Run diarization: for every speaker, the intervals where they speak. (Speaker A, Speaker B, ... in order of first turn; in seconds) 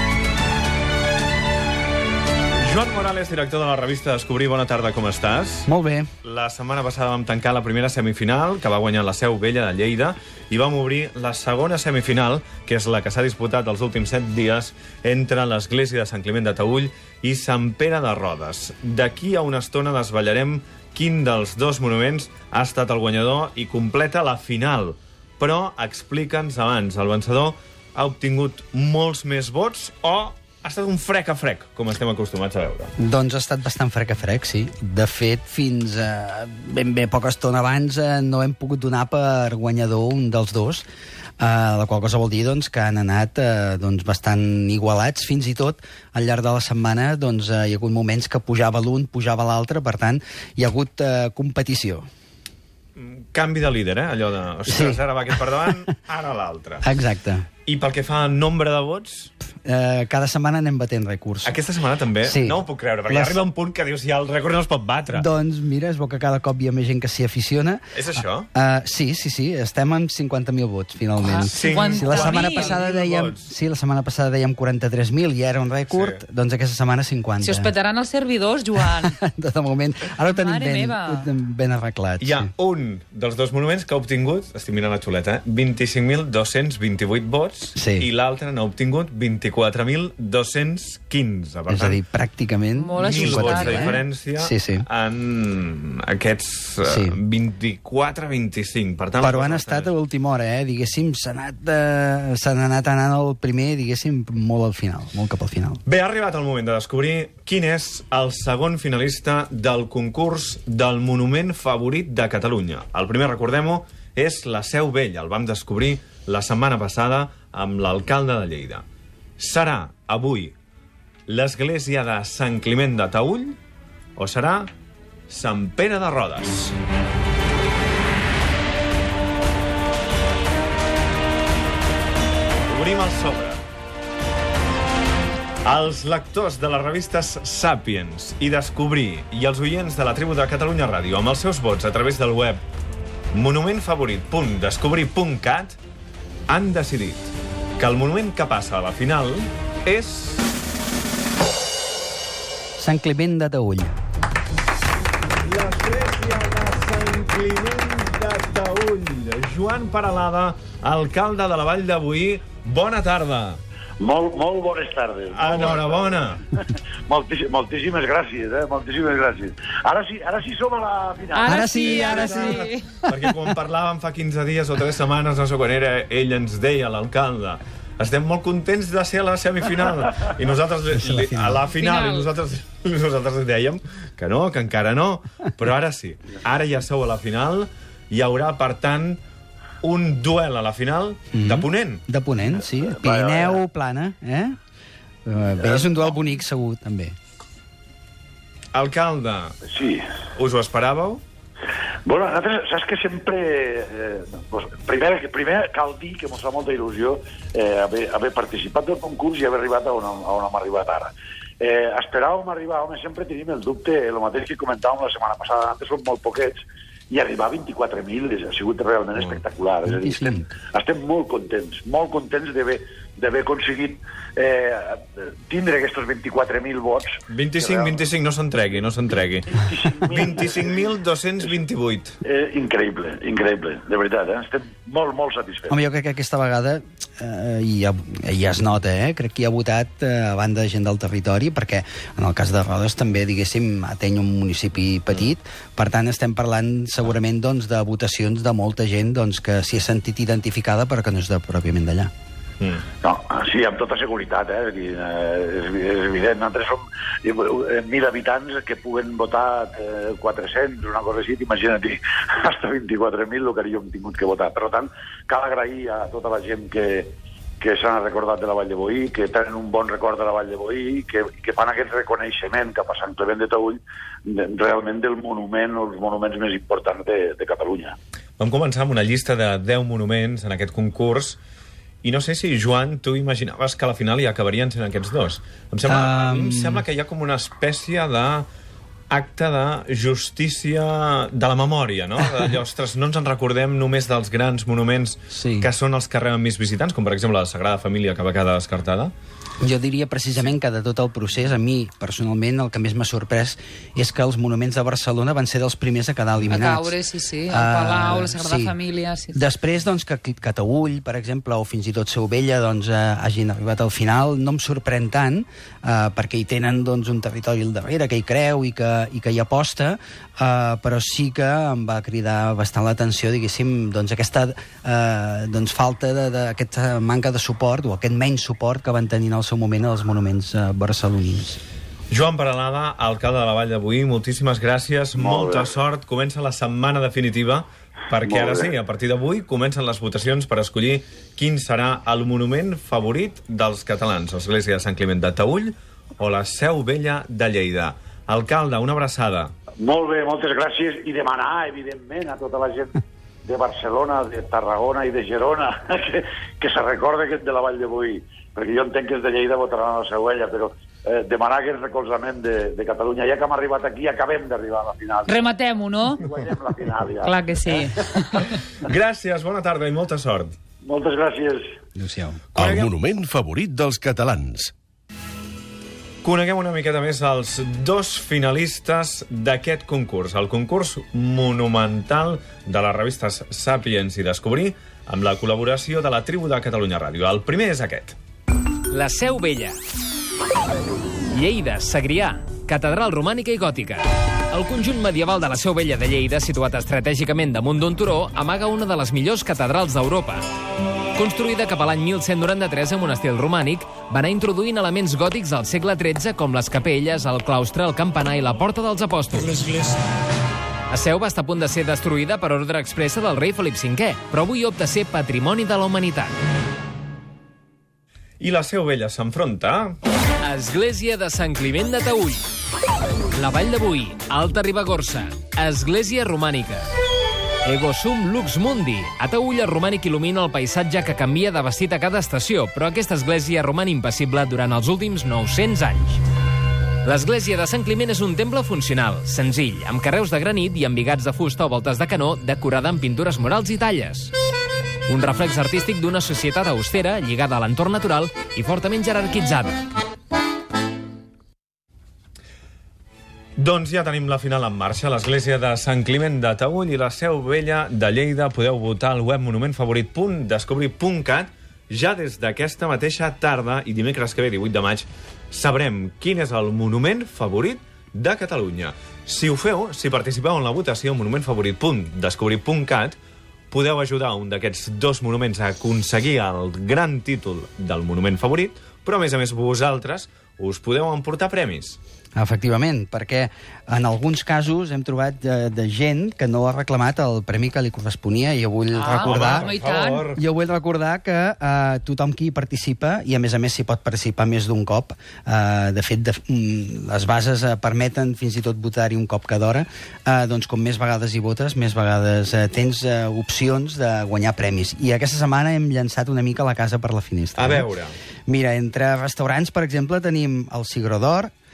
Speaker A: 2.6-5.7, 6.2-32.9, 53.0-56.8, 57.6-59.3, 61.4-65.3, 67.9-68.5, 71.5-73.5, 75.9-76.2, 82.2-92.0, 93.0-99.9, 105.8-118.8, 119.4-120.5, 121.3-123.6, 124.2-124.7, 125.3-126.7, 132.7-133.6, 135.6-142.6, 143.3-145.8, 146.5-150.5, 155.4-163.6, 165.3-166.4, 171.9-189.2, 189.8-192.0, 198.7-199.6, 200.3-201.2, 227.3-229.5, 230.1-232.2, 252.6-252.8, 278.4-281.4, 282.0-288.5, 289.1-299.1, 332.1-349.5, 368.8-370.5, 372.6-372.9, 376.2-388.2, 418.4-420.0, 453.6-473.2, 473.7-482.0, 489.2-490.3, 507.6-508.1
Speaker B: 5.7-6.1, 33.0-40.8, 41.4-52.0, 54.7-55.9, 56.8-57.5, 59.6-61.6, 62.2-63.4, 65.1-77.7, 78.8-82.5, 87.8-88.1, 91.7-94.8, 96.8-97.2, 99.2-105.8, 152.8-154.0, 171.4-173.3, 180.9-181.7, 191.3-194.6, 195.2-197.1, 219.8-220.5, 235.7-252.1, 285.9-286.8, 295.3-295.7, 299.6-306.9, 307.5-308.8, 309.3-331.6, 372.0-372.4, 482.4-489.8, 490.3-507.9, 508.5-511.5
Speaker C: 71.2-72.8, 77.4-79.2, 80.2-81.3, 92.8-94.0, 171.3-172.9, 181.7-182.3, 306.5-309.4, 365.3-366.2, 367.2-368.6, 489.0-490.3
Speaker D: 164.0-171.8, 192.7-193.6, 195.6-195.9, 199.7-200.0, 202.0-216.6, 217.1-228.1, 229.5-231.6, 232.2-235.8, 253.0-277.9, 335.1-335.8, 338.2-338.7, 349.8-365.4, 366.2-367.9, 370.8-371.6
Speaker E: 372.6-374.7
Speaker F: 388.9-389.7, 391.3-400.4, 401.1-409.9, 410.9-416.3, 420.4-422.4, 423.3-426.9, 427.6-436.2, 437.0-444.3, 445.1-449.8